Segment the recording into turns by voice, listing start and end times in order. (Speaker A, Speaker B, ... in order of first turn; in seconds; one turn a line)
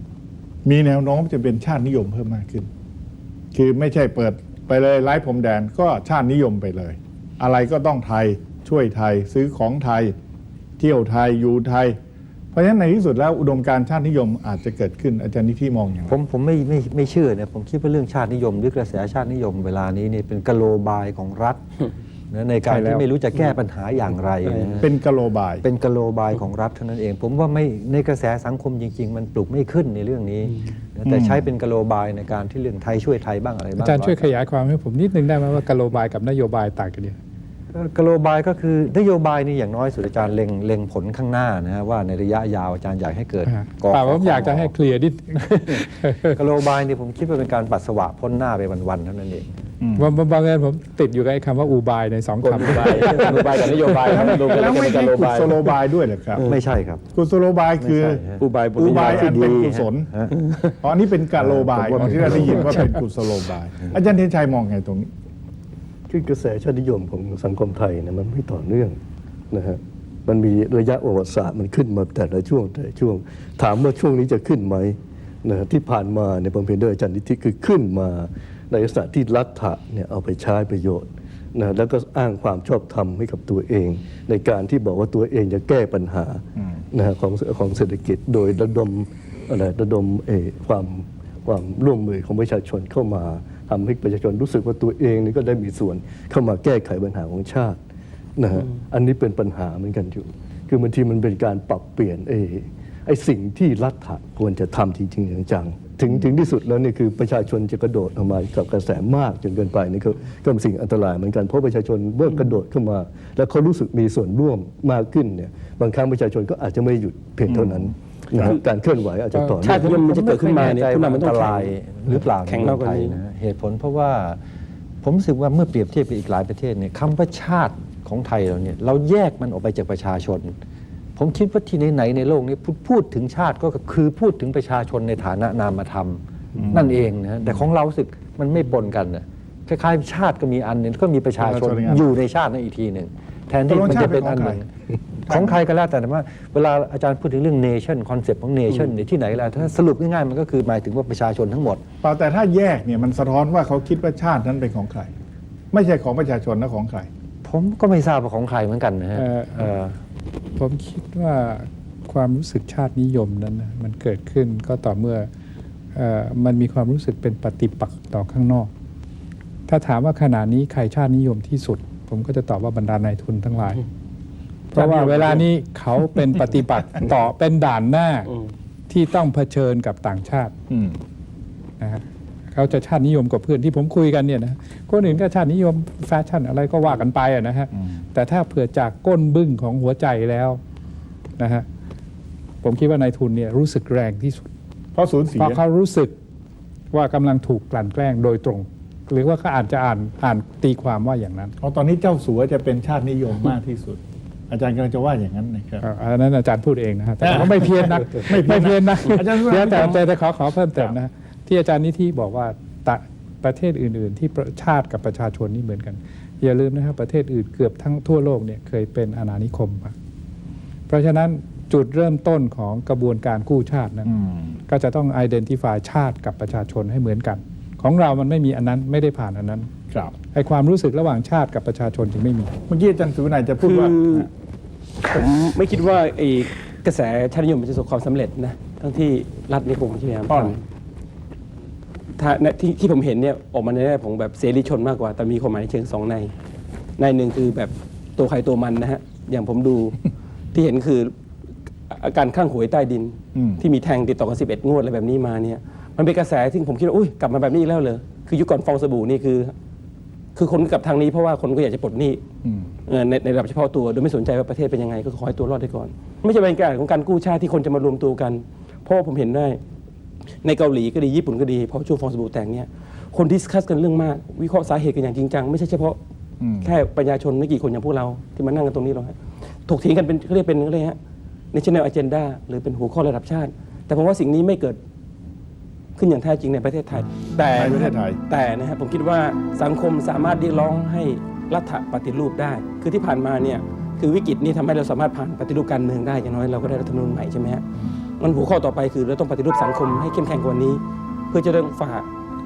Speaker A: 0.7-2.7
Speaker A: 3.5-10.2
Speaker A: 10.8-12.0
Speaker A: 12.5-16.1
Speaker B: 16.1-21.6
Speaker B: 22.3-24.9
Speaker C: 22.7-23.1
Speaker A: 24.8-25.6
Speaker B: 25.6-34.3
Speaker A: 31.1-31.5
Speaker C: 33.8-37.2
Speaker B: 37.7-44.7
Speaker C: 43.5-46.4
Speaker B: 45.7-49.5
Speaker A: 49.8-50.1
Speaker C: 50.0-54.6
Speaker D: 52.4-55.4
Speaker B: 52.5-55.6
Speaker A: 54.0-56.5
Speaker B: 56.5-57.0
Speaker A: 57.1-58.2
Speaker B: 57.8-60.4
Speaker D: 58.4-59.7
Speaker A: 58.8-60.1
Speaker A: 60.8-65.1
Speaker B: 61.4-63.0
Speaker E: 66.1-69.0
Speaker E: 69.5-97.8
Speaker E: 98.4-120.0
Speaker A: 117.5-118.5
Speaker B: 119.4-124.4
Speaker D: 119.6-123.2
Speaker B: 125.0-130.5
Speaker B: 131.2-144.7
Speaker A: 136.6-136.9
Speaker A: 141.4-142.1
Speaker A: 143.7-144.6
Speaker A: 145.2-145.6
Speaker B: 145.3-151.8
Speaker A: 152.0-155.1
Speaker A: 155.7-157.1
Speaker B: 157.4-159.9
Speaker C: 159.2-159.6
Speaker C: 160.6-165.3
Speaker C: 165.9-168.7
Speaker C: 169.7-173.8
Speaker C: 174.7-178.3
Speaker A: 174.8-175.5
Speaker C: 178.9-180.5
Speaker A: 180.7-181.0
Speaker C: 181.8-190.6
Speaker C: 191.4-191.7
Speaker C: 192.6-194.5
Speaker A: 194.9-195.6
Speaker C: 195.3-196.2
Speaker C: 196.9-201.6
Speaker A: 201.6-205.8
Speaker C: 205.8-219.9
Speaker A: 207.2-210.0
Speaker C: 220.9-224.1
Speaker A: 224.1-224.6
Speaker C: 224.7-229.7
Speaker C: 230.3-232.5
Speaker A: 232.7-234.3
Speaker D: 233.6-234.3
Speaker D: 235.1-240.6
Speaker A: 240.3-240.6
Speaker D: 242.2-246.3
Speaker D: 247.0-250.0
Speaker D: 250.5-251.1
Speaker D: 251.9-259.5
Speaker A: 253.3-253.6
Speaker D: 260.4-262.2
Speaker A: 262.4-262.7
Speaker D: 262.9-269.6
Speaker D: 270.4-276.0
Speaker A: 276.4-276.7
Speaker D: 276.6-281.0
Speaker D: 281.5-284.8
Speaker D: 286.0-297.6
Speaker A: 287.4-288.2
Speaker D: 298.2-302.1